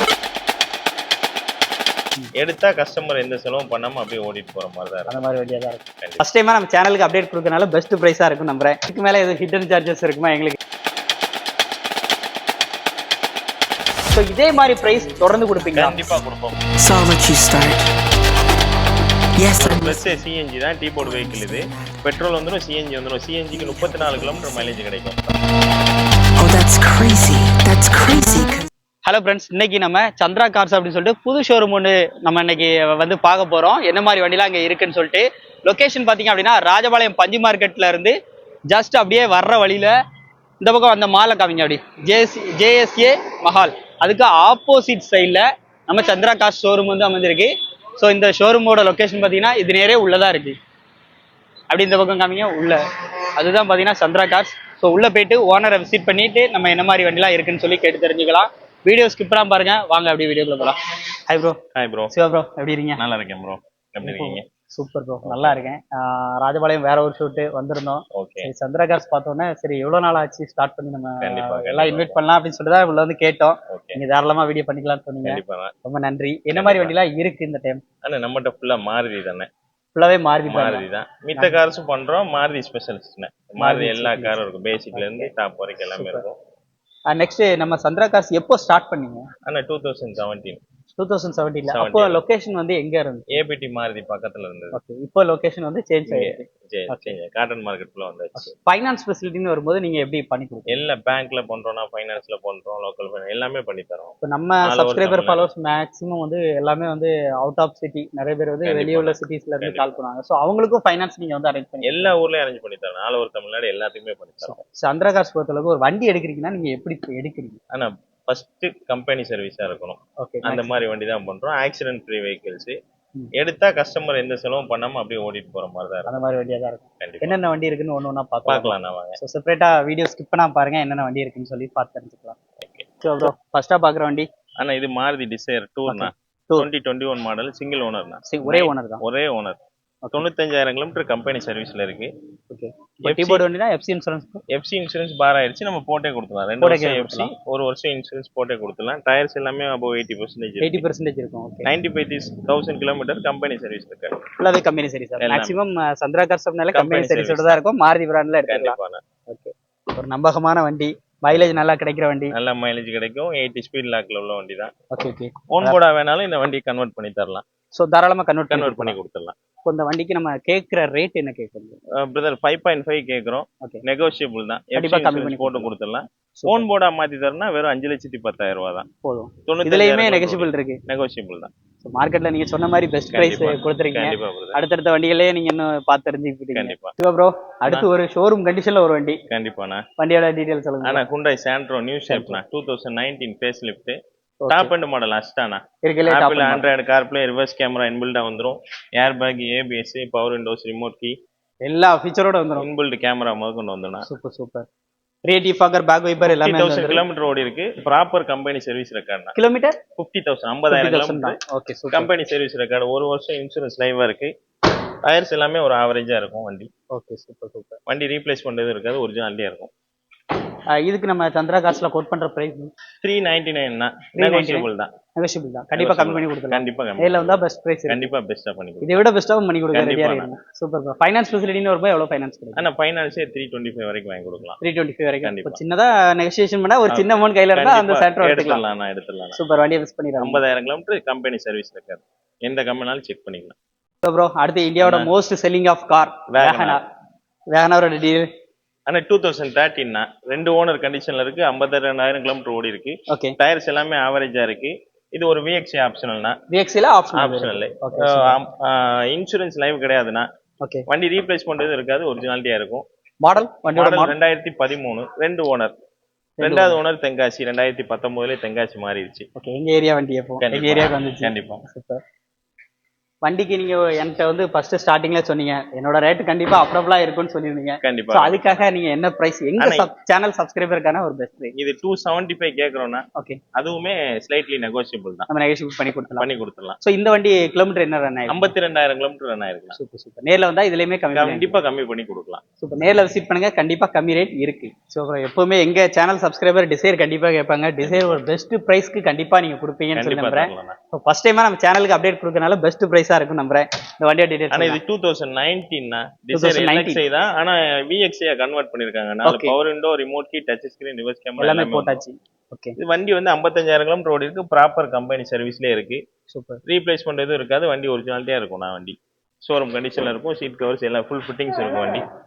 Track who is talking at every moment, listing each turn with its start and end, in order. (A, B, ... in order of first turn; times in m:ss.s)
0:02.4-0:05.2 A
0:05.1-0:10.6 B
0:14.1-0:16.1 B
0:14.6-0:16.2 C
0:15.7-0:16.7 A
0:16.8-0:17.9 C
0:19.4-0:20.2 C
0:19.6-0:25.2 A
0:21.0-0:22.2 C
0:23.5-0:24.8 C
0:26.4-0:28.7 C
0:29.0-0:38.1 B
0:38.7-0:39.9 B
0:40.6-0:50.6 B
0:51.7-0:52.8 B
0:53.4-1:00.8 B
1:01.3-1:01.6 B
1:01.7-1:02.1 A
1:02.1-1:03.0 B
1:03.0-1:04.4 A
1:04.0-1:17.8 B
1:05.2-1:05.6 A
1:08.1-1:08.5 A
1:11.2-1:12.2 A
1:13.7-1:14.0 A
1:15.2-1:15.7 A
1:16.5-1:16.9 A
1:18.0-1:19.5 A
1:19.9-1:21.6 B
1:20.4-1:26.4 A
1:23.6-1:25.3 B
1:25.9-1:26.2 B
1:27.1-1:29.3 B
1:29.4-1:30.6 A
1:31.0-1:33.4 B
1:31.6-1:32.2 A
1:33.3-1:34.8 A
1:34.7-1:37.2 B
1:36.1-1:38.5 A
1:38.4-1:40.8 B
1:40.7-1:45.5 A
1:44.2-1:52.1 B
1:48.6-1:49.9 A
1:51.8-1:54.6 A
1:54.4-1:57.6 B
1:57.7-2:02.8 A
2:00.2-2:00.7 B
2:03.4-2:06.1 A
2:06.0-2:12.4 B
2:07.0-2:07.4 A
2:08.4-2:09.2 A
2:13.0-2:14.3 B
2:14.6-2:19.6 A
2:15.9-2:16.7 B
2:18.3-2:19.0 B
2:20.1-2:22.1 A
2:22.5-2:24.4 B
2:23.0-2:23.4 A
2:24.5-2:30.8 A
2:26.6-2:27.3 B
2:30.6-2:31.7 B
2:31.6-2:34.3 A
2:34.4-2:38.8 B
2:35.2-2:35.6 A
2:36.7-2:37.6 A
2:38.5-2:39.0 A
2:39.3-2:42.3 B
2:42.3-2:44.7 A
2:44.9-2:45.8 B
2:45.5-2:47.4 A
2:47.7-2:49.0 B
2:48.5-2:49.3 A
2:49.6-2:51.8 B
2:52.0-2:58.9 A
2:54.7-2:55.7 B
2:56.4-2:56.6 B
2:59.0-3:00.8 B
2:59.4-3:01.5 A
3:01.8-3:09.2 B
3:03.1-3:04.6 A
3:06.5-3:06.9 A
3:09.3-3:09.8 A
3:10.0-3:11.0 B
3:10.8-3:14.0 A
3:12.1-3:12.4 B
3:14.4-3:14.7 B
3:14.5-3:21.1 A
3:15.8-3:16.7 B
3:21.6-3:22.7 B
3:22.6-3:24.1 A
3:24.0-3:24.6 B
3:25.2-3:27.0 B
3:26.2-3:29.4 A
3:29.3-3:29.8 B
3:30.0-3:31.4 A
3:30.7-3:32.1 B
3:31.9-3:34.3 A
3:35.0-3:36.7 A
3:36.9-3:37.8 B
3:37.9-3:39.7 A
3:40.8-3:42.7 B
3:43.0-3:44.9 A
3:44.2-3:48.1 B
3:45.7-3:49.0 A
3:48.8-3:52.7 B
3:49.7-3:50.3 A
3:52.5-3:54.6 A
3:54.6-3:58.6 B
3:55.2-3:55.6 A
3:56.9-3:59.4 A
3:59.3-4:00.4 B
4:00.2-4:03.5 A
4:04.0-4:06.8 B
4:04.8-4:05.1 A
4:06.3-4:06.8 A
4:07.5-4:08.2 B
4:08.9-4:16.4 A
4:13.1-4:13.4 B
4:16.5-4:18.4 B
4:17.1-4:20.2 A
4:20.9-4:22.8 A
4:23.2-4:24.1 B
4:23.6-4:25.7 A
4:26.4-4:26.8 B
4:26.4-4:29.3 A
4:29.4-4:32.0 B
4:30.4-4:31.6 A
4:33.2-4:41.5 B
4:37.8-4:38.6 A
4:39.6-4:39.9 A
4:41.5-4:45.3 A
4:45.3-4:46.3 B
4:46.2-4:46.8 A
4:46.8-4:48.5 B
4:48.3-4:49.8 A
4:49.7-4:51.6 B
4:51.1-4:52.4 A
4:52.6-5:04.8 B
4:57.8-4:58.2 A
4:59.9-5:00.8 A
5:04.5-5:12.0 A
5:06.3-5:07.0 B
5:09.2-5:09.6 B
5:11.4-5:12.8 B
5:12.8-5:16.0 A
5:16.3-5:16.6 B
5:16.6-5:22.0 A